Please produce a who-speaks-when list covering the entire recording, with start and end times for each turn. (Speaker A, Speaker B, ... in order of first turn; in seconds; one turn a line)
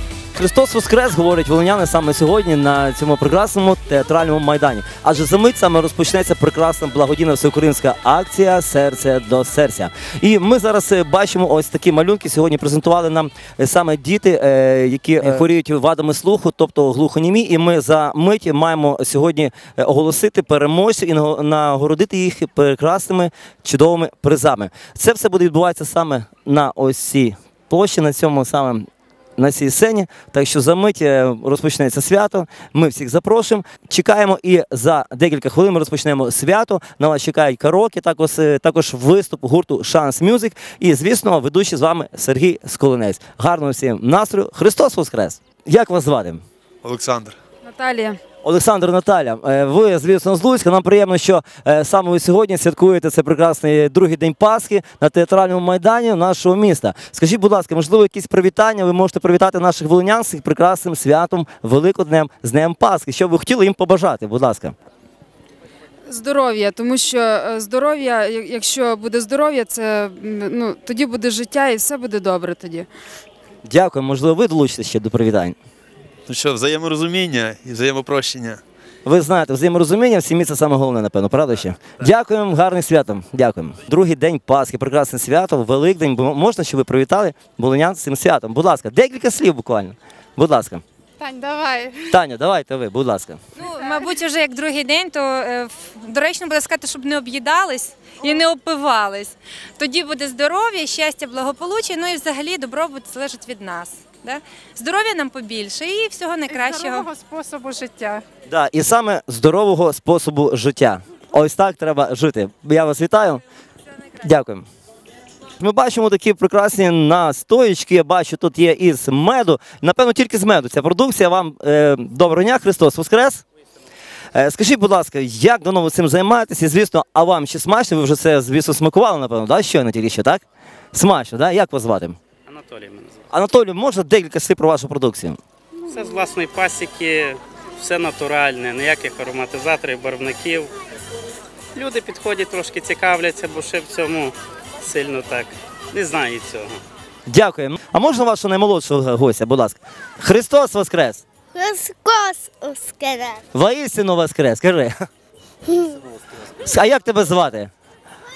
Speaker A: 0.3-46.4
Speaker B: 46.8-47.4
Speaker C: 47.6-48.2
Speaker A: 48.4-64.8
Speaker C: 66.0-72.9
Speaker A: 73.6-75.6
Speaker B: 76.3-78.6
Speaker A: 79.0-90.8
Speaker C: 91.2-92.1
Speaker A: 92.1-93.4
Speaker D: 93.6-107.1
Speaker C: 106.5-108.2
Speaker A: 108.5-113.4
Speaker A: 114.2-114.7
Speaker A: 115.6-123.4
Speaker A: 124.3-132.2
Speaker E: 132.5-133.2
Speaker A: 133.3-135.4
Speaker E: 135.9-140.7
Speaker E: 141.7-146.8
Speaker A: 147.3-151.2
Speaker F: 151.5-153.4
Speaker A: 153.5-154.9
Speaker F: 155.7-155.9
Speaker A: 156.6-157.7